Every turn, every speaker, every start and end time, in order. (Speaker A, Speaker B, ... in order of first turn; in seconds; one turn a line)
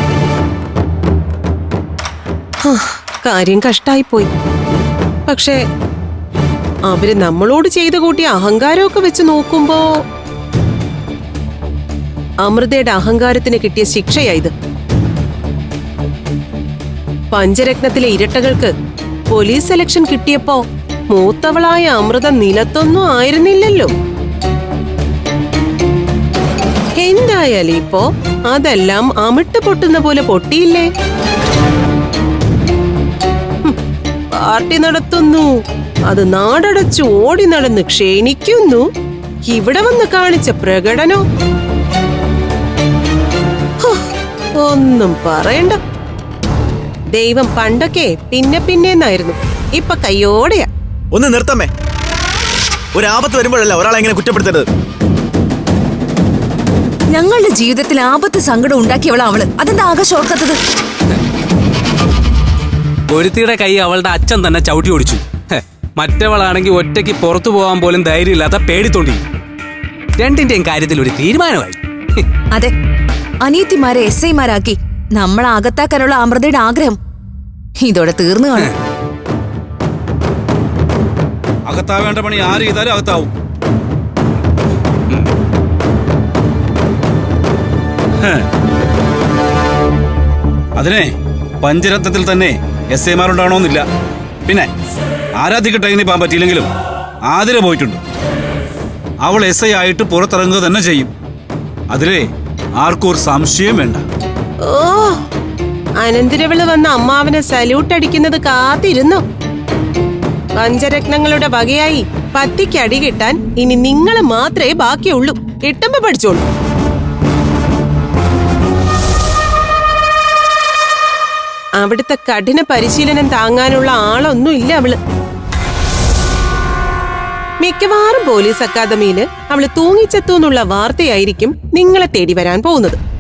Speaker A: 2.6-4.3
Speaker A: 5.3-5.6
Speaker A: 6.9-9.8
Speaker A: 12.4-14.5
Speaker A: 17.3-18.7
Speaker A: 19.3-23.9
Speaker A: 27.0-30.9
Speaker A: 34.3-38.9
Speaker A: 39.5-41.2
Speaker A: 44.6-45.8
Speaker A: 47.1-50.7
Speaker B: 51.1-51.7
Speaker B: 52.9-54.7
Speaker C: 57.1-60.6
Speaker D: 63.1-69.2
Speaker D: 70.2-72.2
Speaker C: 73.5-77.0
Speaker C: 77.8-78.7
Speaker E: 81.7-83.3
Speaker E: 88.2-88.5
Speaker E: 90.8-93.8
Speaker E: 95.4-96.7
Speaker E: 97.3-98.0
Speaker E: 99.2-101.1
Speaker E: 101.9-104.0
Speaker A: 104.6-105.2
Speaker A: 106.0-109.2
Speaker A: 110.6-116.4
Speaker A: 121.8-125.0
Speaker A: 127.6-133.0